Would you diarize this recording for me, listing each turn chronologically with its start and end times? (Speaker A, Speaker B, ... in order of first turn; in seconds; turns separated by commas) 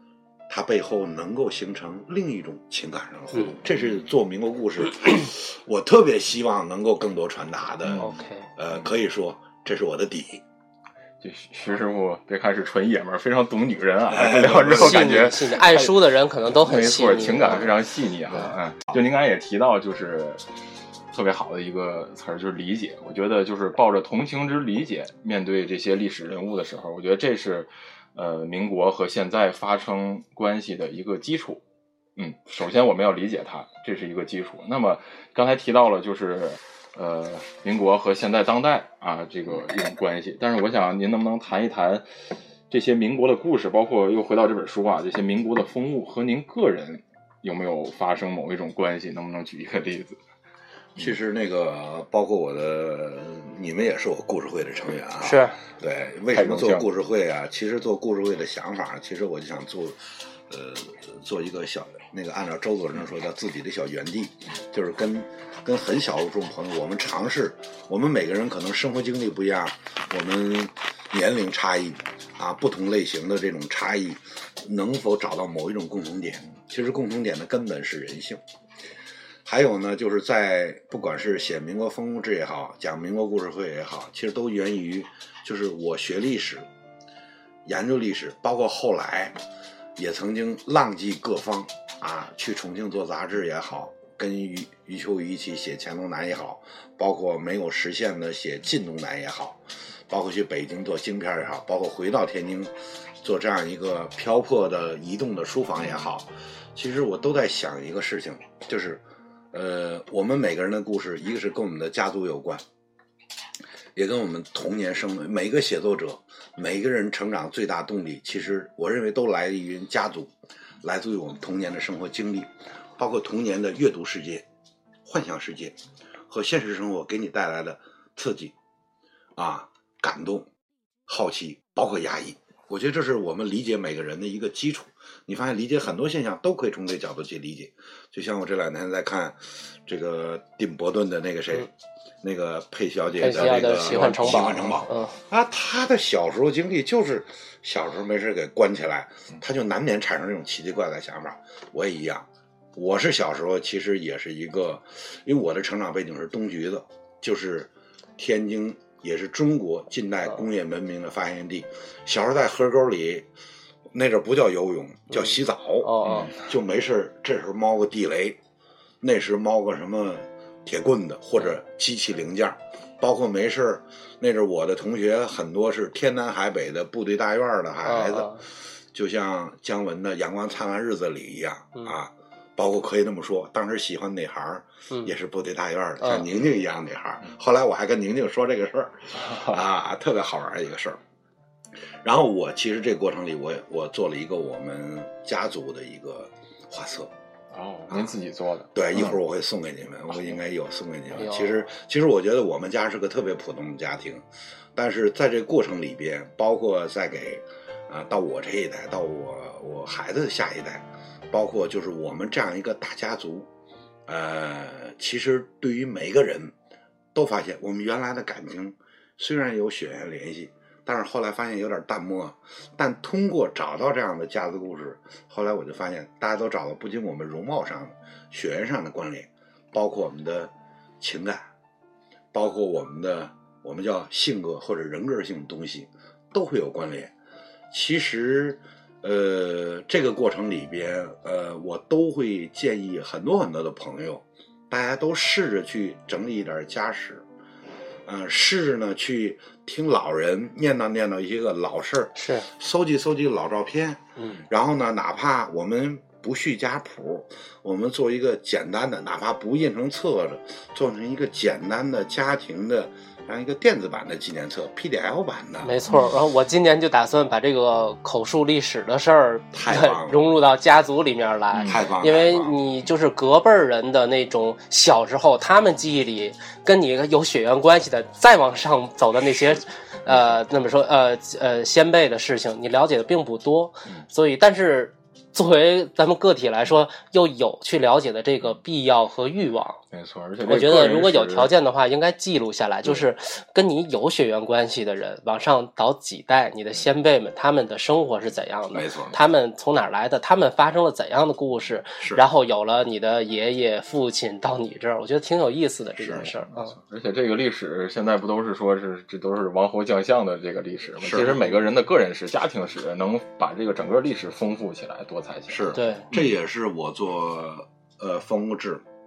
Speaker A: 0.5-10.4, Speaker B: 7.8-8.1, Speaker C: 8.0-8.5, Speaker B: 11.2-16.0, Speaker A: 14.1-15.2, Speaker C: 14.6-17.8, Speaker B: 16.6-20.4, Speaker B: 21.1-31.6, Speaker B: 32.2-42.1, Speaker B: 42.7-50.2, Speaker A: 51.0-78.4, Speaker C: 55.2-55.6, Speaker B: 56.3-56.9, Speaker A: 79.5-86.7, Speaker A: 87.7-89.4, Speaker A: 90.0-112.6, Speaker A: 114.0-124.5, Speaker A: 125.0-125.8, Speaker A: 126.3-128.5, Speaker A: 129.4-130.5, Speaker A: 131.1-141.7, Speaker A: 142.2-163.3, Speaker C: 143.2-145.2, Speaker B: 143.5-144.6, Speaker A: 163.9-168.4, Speaker C: 165.8-166.3, Speaker B: 166.0-166.3, Speaker A: 169.0-178.4, Speaker C: 177.8-178.4, Speaker A: 178.9-191.0, Speaker C: 186.0-186.3, Speaker A: 192.0-197.1, Speaker B: 197.5-198.7, Speaker A: 197.9-198.2, Speaker A: 198.8-213.5, Speaker C: 201.2-201.5, Speaker A: 214.1-216.5, Speaker A: 217.1-231.5, Speaker A: 232.3-237.1, Speaker A: 237.7-247.2, Speaker A: 248.1-265.7, Speaker C: 252.2-252.5, Speaker C: 254.2-254.4, Speaker C: 265.6-289.8, Speaker A: 269.5-270.2, Speaker B: 271.5-271.9, Speaker A: 271.7-272.6, Speaker B: 289.9-291.5, Speaker C: 290.5-306.8, Speaker A: 298.7-299.2, Speaker A: 306.0-306.3, Speaker B: 306.2-316.4, Speaker A: 311.0-311.6, Speaker A: 315.5-318.8, Speaker C: 315.7-316.1